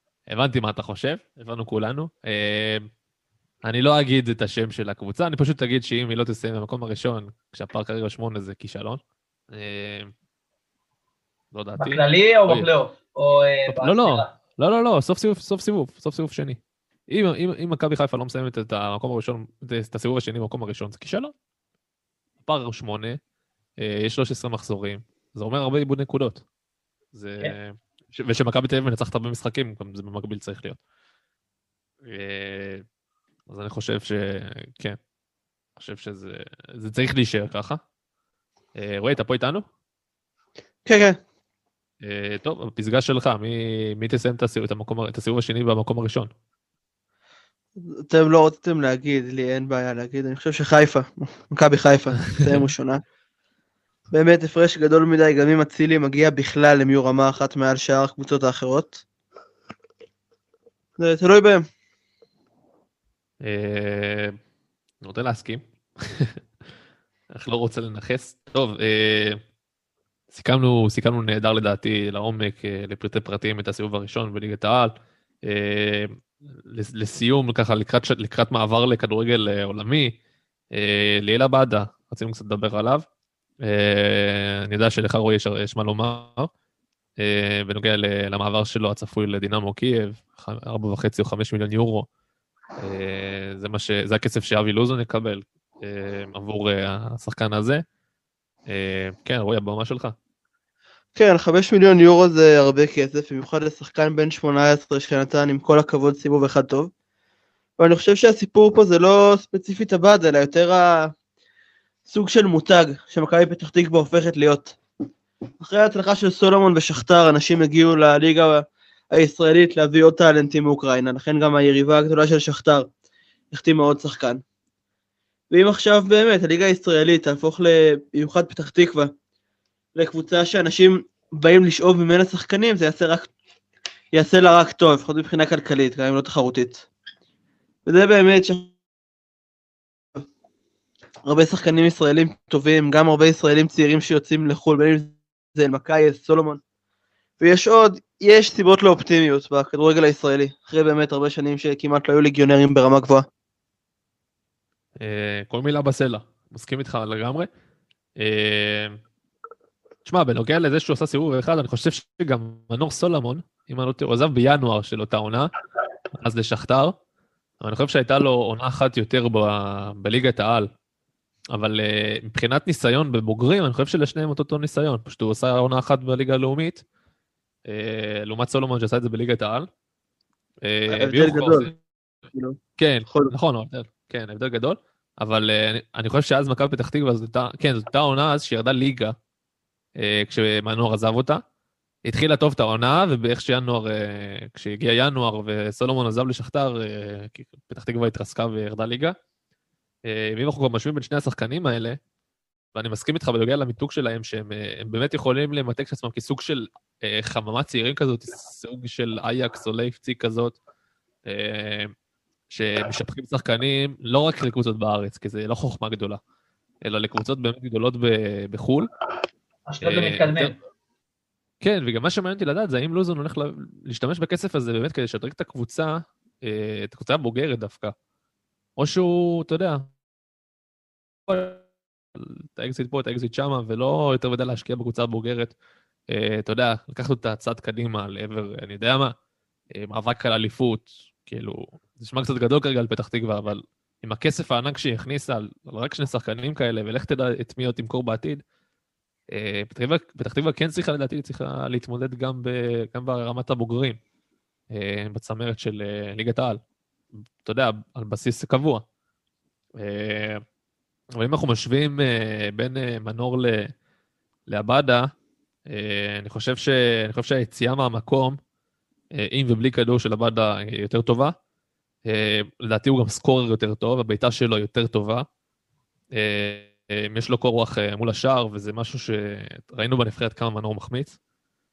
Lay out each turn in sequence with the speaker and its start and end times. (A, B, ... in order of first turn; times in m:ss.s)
0:00.3-0:02.9 A
0:03.6-0:09.0 A
0:09.5-0:10.1 A
0:11.5-0:12.7 A
0:11.8-0:14.3 B
0:13.7-0:16.6 A
0:17.1-0:21.3 A
0:22.4-0:23.2 A
0:23.8-0:26.4 A
0:27.1-0:30.8 A
0:32.1-0:32.8 A
0:33.5-0:35.0 A
0:35.8-0:37.8 A
0:38.8-0:39.6 A
0:40.9-0:41.2 C
0:42.0-0:46.3 A
0:48.1-0:53.0 C
0:54.1-0:59.0 C
1:01.0-1:01.6 C
1:03.4-1:04.4 A
1:05.0-1:06.6 A
1:07.3-1:09.4 A
1:10.3-1:20.2 A
1:20.7-1:23.0 A
1:23.6-1:26.5 A
1:27.2-1:32.1 A
1:32.8-1:37.8 A
1:38.7-1:40.2 A
1:41.2-1:46.9 C
1:47.8-1:51.1 C
1:52.1-1:54.8 C
1:55.6-2:02.9 C
2:03.5-2:04.4 C
2:05.5-2:09.1 C
2:10.0-2:13.3 C
2:14.1-2:16.8 C
2:17.9-2:18.7 C
2:21.3-2:26.6 C
2:27.4-2:33.3 C
2:35.0-2:37.5 A
2:38.2-2:39.0 A
2:40.0-2:45.5 A
2:46.2-2:47.0 A
2:47.6-2:50.7 A
2:51.5-2:56.8 A
2:57.7-2:59.7 A
3:00.6-3:01.7 A
3:00.9-3:01.7 C
3:02.8-3:09.2 A
3:10.0-3:11.4 A
3:12.1-3:19.2 A
3:20.1-3:22.0 A
3:22.7-3:30.6 A
3:31.3-3:31.9 A
3:32.5-3:36.2 A
3:36.8-3:38.9 A
3:39.7-3:40.6 B
3:39.8-3:40.5 A
3:41.6-3:47.9 A
3:48.8-3:49.8 A
3:51.3-3:51.6 A
3:52.2-3:55.5 A
3:56.1-3:59.1 A
3:59.7-4:08.4 A
4:09.3-4:14.0 A
4:14.7-4:16.6 A
4:17.4-4:18.8 A
4:19.8-4:20.4 A
4:21.2-4:23.7 A
4:24.5-4:25.1 A
4:25.7-4:28.4 A
4:29.2-4:31.4 A
4:32.1-4:35.3 A
4:36.2-4:41.2 A